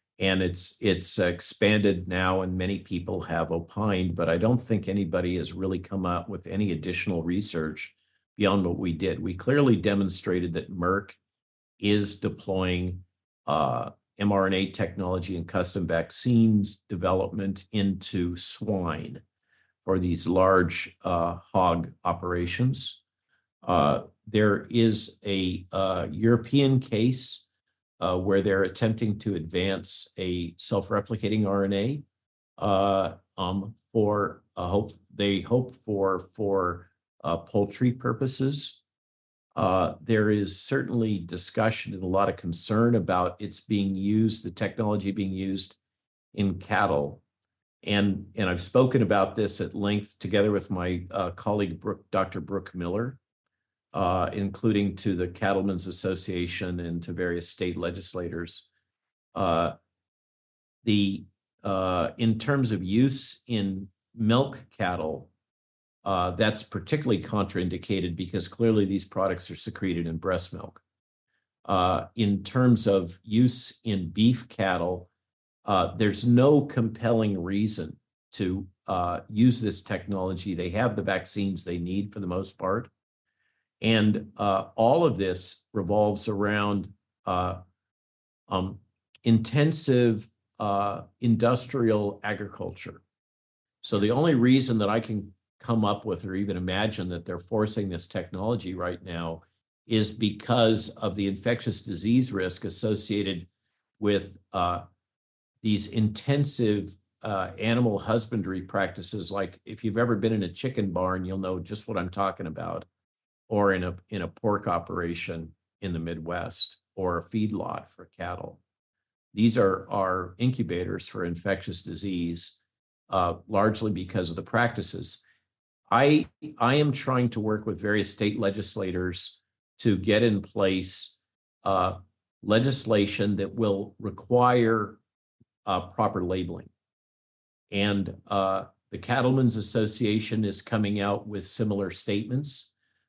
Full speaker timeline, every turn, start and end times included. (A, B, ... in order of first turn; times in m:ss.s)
0:00.2-0:11.2 A
0:11.8-0:19.2 A
0:19.8-0:23.0 A
0:23.6-0:27.4 A
0:28.0-0:32.0 A
0:32.6-0:38.8 A
0:39.6-0:45.8 A
0:46.3-0:47.2 A
0:47.8-0:53.2 A
0:53.9-0:58.7 A
0:59.3-0:59.7 A
1:00.8-1:05.3 A
1:06.0-1:10.8 A
1:11.6-1:15.1 A
1:15.6-1:22.9 A
1:23.8-1:27.6 A
1:28.5-1:33.0 A
1:33.8-1:43.5 A
1:44.0-1:44.8 A
1:45.6-1:52.9 A
1:53.5-1:58.6 A
1:59.3-2:02.6 A
2:03.1-2:05.2 A
2:05.9-2:15.0 A
2:15.6-2:16.7 A
2:17.7-2:22.7 A